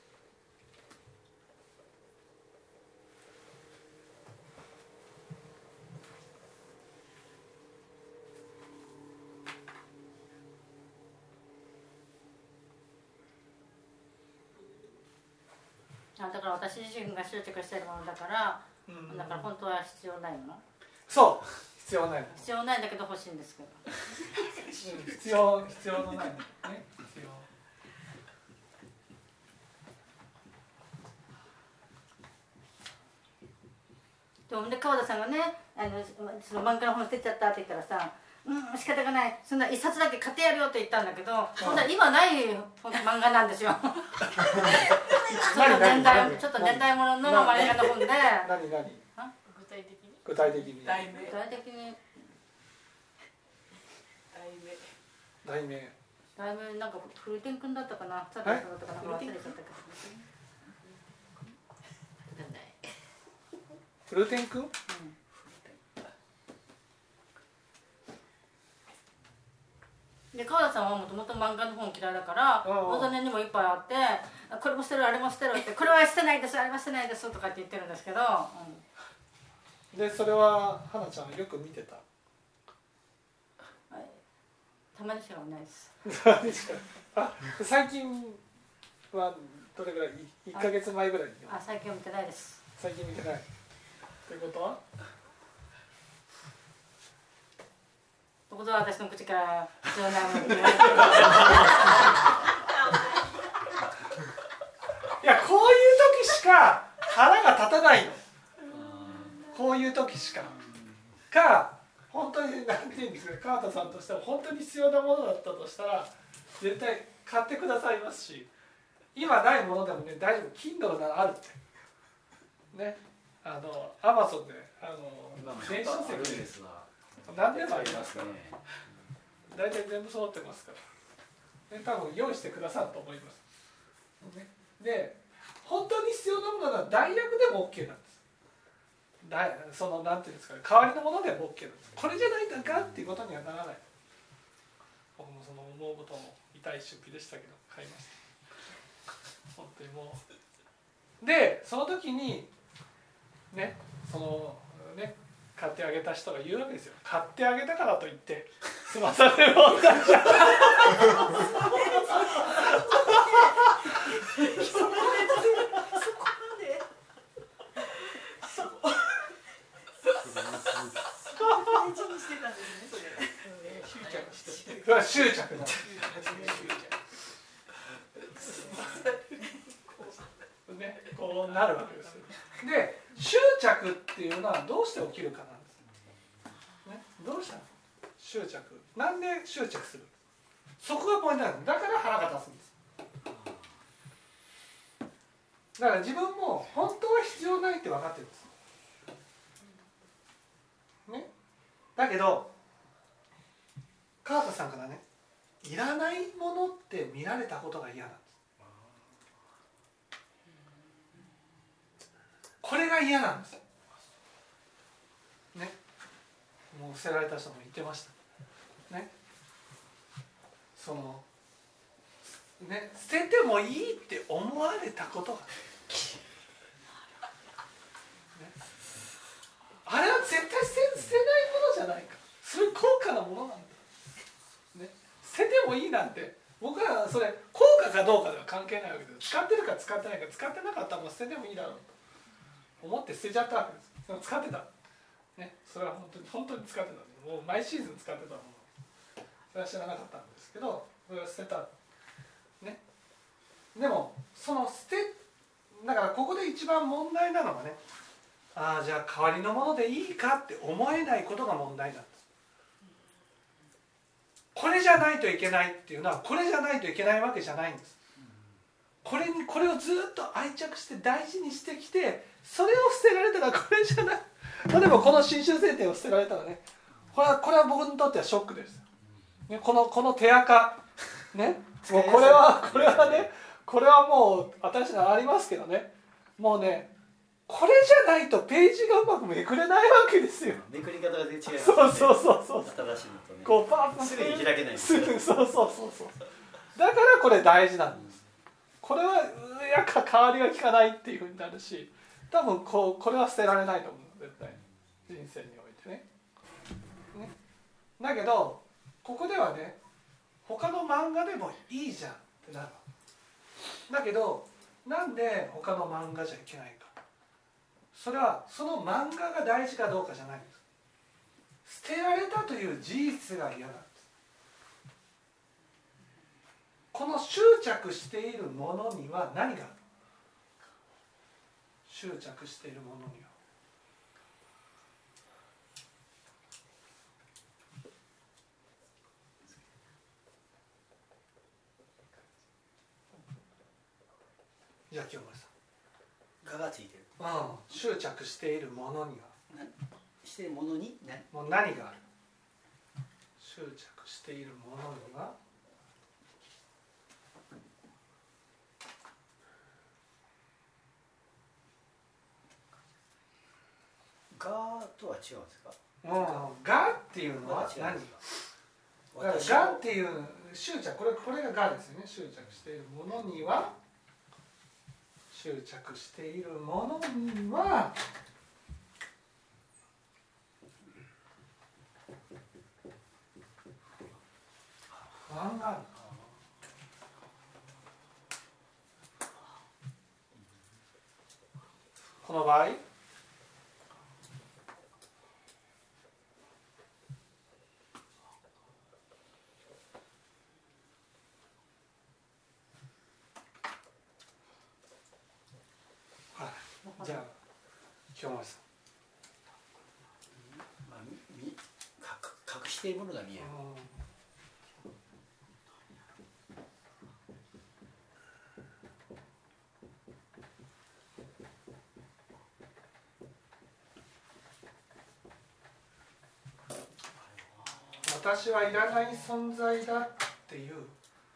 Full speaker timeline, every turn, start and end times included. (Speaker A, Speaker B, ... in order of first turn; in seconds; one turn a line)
Speaker A: 16.2-20.6
Speaker B: 18.9-19.5
Speaker B: 21.1-22.4
Speaker A: 22.3-23.9
Speaker C: 24.1-25.9
Speaker B: 24.8-27.5
Speaker A: 34.5-48.5
Speaker B: 41.6-41.9
Speaker B: 45.1-49.0
Speaker C: 45.2-45.8
Speaker C: 49.5-51.4
Speaker B: 50.2-51.1
Speaker A: 51.1-52.0
Speaker C: 54.3-54.9
Speaker B: 55.4-56.0
Speaker A: 56.4-60.2
Speaker C: 59.0-59.3
Speaker A: 62.4-62.7
Speaker B: 64.1-64.7
Speaker A: 64.9-65.2
Speaker A: 70.3-78.8
Speaker B: 72.6-73.2
Speaker B: 79.9-82.0
Speaker A: 83.9-84.2
Speaker A: 84.9-85.9
Speaker B: 86.0-88.4
Speaker B: 89.1-91.6
Speaker A: 91.5-92.6
Speaker B: 92.8-93.5
Speaker B: 94.3-94.8
Speaker A: 98.5-102.1
Speaker B: 100.5-101.6
Speaker B: 105.2-108.2
Speaker C: 108.6-109.6
Speaker D: 108.7-109.5
Speaker B: 109.5-110.6
Speaker D: 110.5-111.0
Speaker B: 111.3-118.5
Speaker B: 119.1-121.6
Speaker B: 122.7-126.5
Speaker D: 125.4-128.6
Speaker B: 127.3-128.4
Speaker B: 129.5-130.8
Speaker B: 131.7-133.4
Speaker B: 134.2-138.2
Speaker B: 139.2-143.8
Speaker B: 145.2-148.2
Speaker B: 149.6-150.2
Speaker B: 151.2-152.5
Speaker B: 153.5-163.7
Speaker C: 161.1-166.9
Speaker B: 164.4-165.7
Speaker C: 168.1-169.3
Speaker D: 170.2-171.1
Speaker C: 171.2-177.1
Speaker B: 171.5-171.8
Speaker B: 174.7-176.7
Speaker C: 178.2-180.3
Speaker B: 180.7-185.8
Speaker C: 181.2-182.5
Speaker B: 186.8-190.1
Speaker B: 190.8-192.7
Speaker D: 193.3-193.6
Speaker B: 195.8-198.5
Speaker B: 202.0-202.5
Speaker B: 204.2-205.0
Speaker B: 205.6-208.3
Speaker B: 212.6-213.6
Speaker B: 216.7-218.1
Speaker B: 220.8-221.2
Speaker B: 222.6-225.5
Speaker B: 229.8-233.8
Speaker B: 234.7-241.9
Speaker B: 242.8-244.7
Speaker B: 245.4-248.7
Speaker B: 249.5-251.7
Speaker B: 253.7-255.2
Speaker B: 255.7-257.8
Speaker B: 258.6-262.2
Speaker B: 264.5-267.9
Speaker B: 269.0-278.8
Speaker B: 279.5-286.9
Speaker D: 281.8-283.3
Speaker B: 287.5-290.6
Speaker D: 290.5-295.2
Speaker B: 291.5-292.8
Speaker B: 293.4-296.2
Speaker B: 296.8-298.2
Speaker B: 298.8-306.1
Speaker B: 308.0-309.8
Speaker B: 310.4-312.8
Speaker B: 313.9-316.9
Speaker B: 317.9-320.6
Speaker B: 321.6-324.1
Speaker B: 326.9-329.8
Speaker B: 331.9-333.3
Speaker B: 344.9-345.5
Speaker D: 346.4-347.1
Speaker B: 347.2-349.3
Speaker D: 349.5-351.3
Speaker B: 351.3-352.0
Speaker B: 353.4-355.4
Speaker D: 364.3-366.6
Speaker B: 366.0-368.2
Speaker D: 367.4-368.2
Speaker D: 369.1-369.9
Speaker B: 369.2-373.8
Speaker B: 375.3-378.0
Speaker B: 385.3-385.9
Speaker D: 385.9-386.3
Speaker B: 392.2-392.8
Speaker B: 406.3-407.3
Speaker A: 406.9-407.2
Speaker B: 408.1-408.6
Speaker D: 410.4-413.6
Speaker B: 413.4-413.9
Speaker D: 427.4-428.1
Speaker B: 428.0-431.0